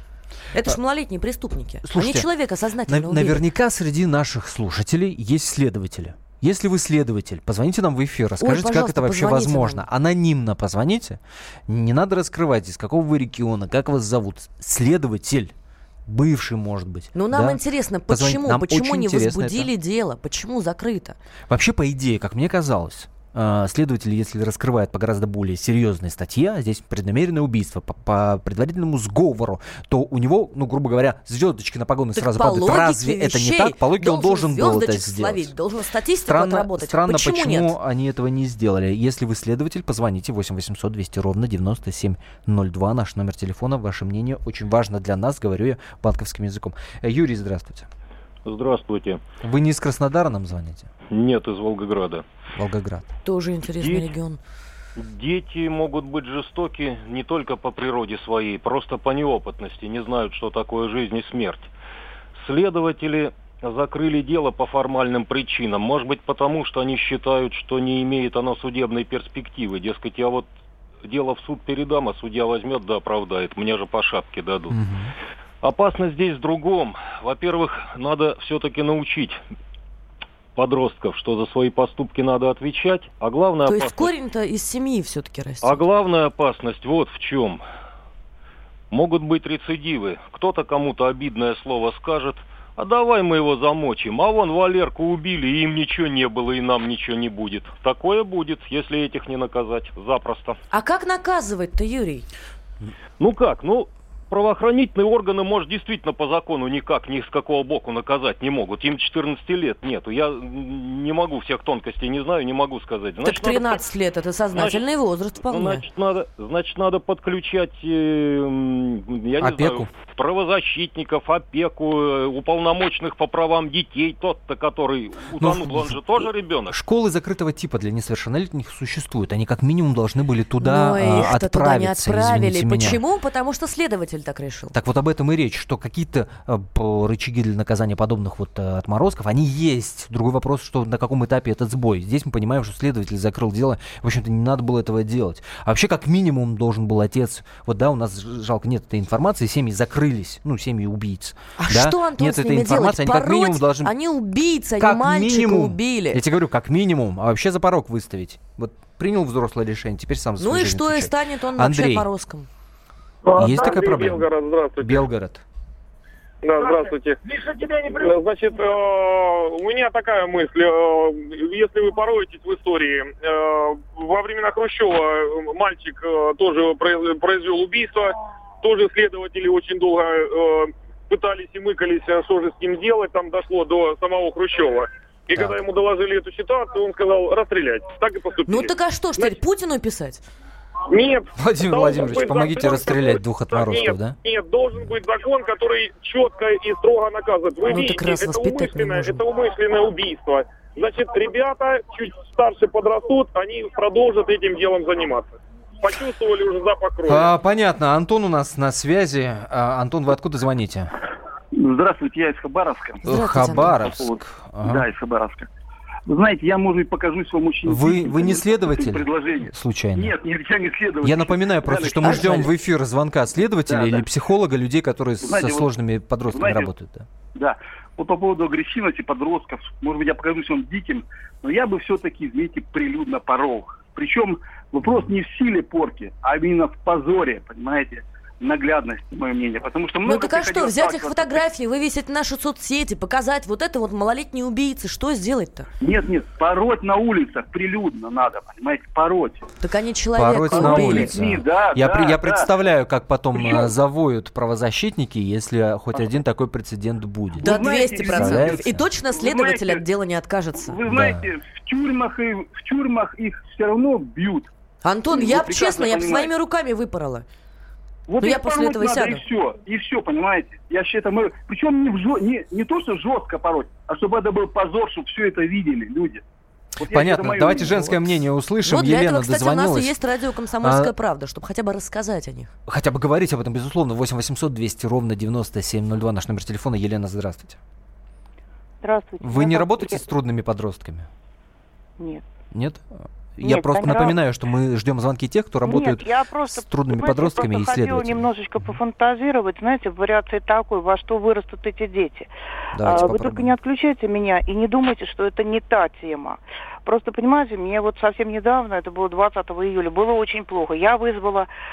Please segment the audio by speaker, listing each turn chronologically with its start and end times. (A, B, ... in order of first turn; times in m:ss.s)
0:00.5-0:03.4 A
0:01.8-0:02.3 B
0:02.9-0:15.5 B
0:08.4-0:09.9 A
0:16.1-0:19.7 B
0:17.1-0:21.2 A
0:21.5-0:35.5 B
0:32.2-0:37.8 A
0:36.3-0:47.9 B
0:48.4-0:49.2 C
0:49.4-0:50.9 B
0:51.1-0:52.3 C
0:52.6-0:53.1 B
0:53.2-0:54.4 A
0:53.8-0:54.1 C
0:55.0-1:01.7 C
1:02.4-1:10.5 C
1:11.0-1:14.8 C
1:14.7-1:15.1 B
1:15.6-1:19.4 C
1:20.6-1:24.1 C
1:23.7-1:25.8 A
1:25.6-1:27.6 C
1:28.9-1:40.6 C
1:40.7-1:42.3 A
1:43.2-1:53.8 C
1:53.2-1:55.8 A
1:54.5-1:54.8 C
1:55.4-2:06.8 C
1:59.4-1:59.9 B
2:05.4-2:13.0 B
2:10.6-2:14.8 A
2:14.7-2:33.9 B
2:31.6-2:36.2 A
2:34.8-2:42.1 B
2:40.4-2:42.5 A
2:43.3-2:45.0 D
2:43.4-2:44.3 B
2:44.8-2:45.4 B
2:46.4-3:09.4 D
3:05.3-3:05.6 B
3:08.5-3:10.2 A
3:10.9-3:27.3 D
3:11.4-3:14.2 B
3:17.7-3:19.2 A
3:27.1-3:30.9 B
3:31.5-3:35.5 E
3:33.0-3:33.8 A
3:33.1-3:34.9 B
3:36.1-3:42.5 E
3:37.6-3:40.1 B
3:41.0-3:47.1 B
3:42.0-3:42.5 A
3:43.7-3:44.1 E
3:45.2-3:45.7 E
3:46.3-3:46.7 E
3:47.4-4:01.4 E
4:00.0-4:05.7 A
4:05.8-4:09.4 E
4:09.6-4:11.4 A
4:10.2-4:18.8 B
4:10.5-4:12.5 E
4:13.3-4:13.7 E
4:17.4-4:19.8 E
4:17.4-4:20.8 A
4:20.6-4:24.5 E
4:20.9-4:21.2 B
4:24.8-4:27.3 A
4:25.1-4:26.3 E
4:28.1-4:36.2 E
4:28.2-4:29.2 A
4:36.8-4:38.0 E
4:36.9-4:40.0 B
4:38.6-4:42.5 A
4:40.6-4:40.9 B
4:42.7-4:47.6 B
4:48.8-4:50.0 F
4:49.2-4:51.1 B
4:52.0-4:52.2 F
4:52.5-4:58.8 B
4:53.4-4:54.2 F
4:55.6-5:11.5 F
5:02.7-5:03.6 B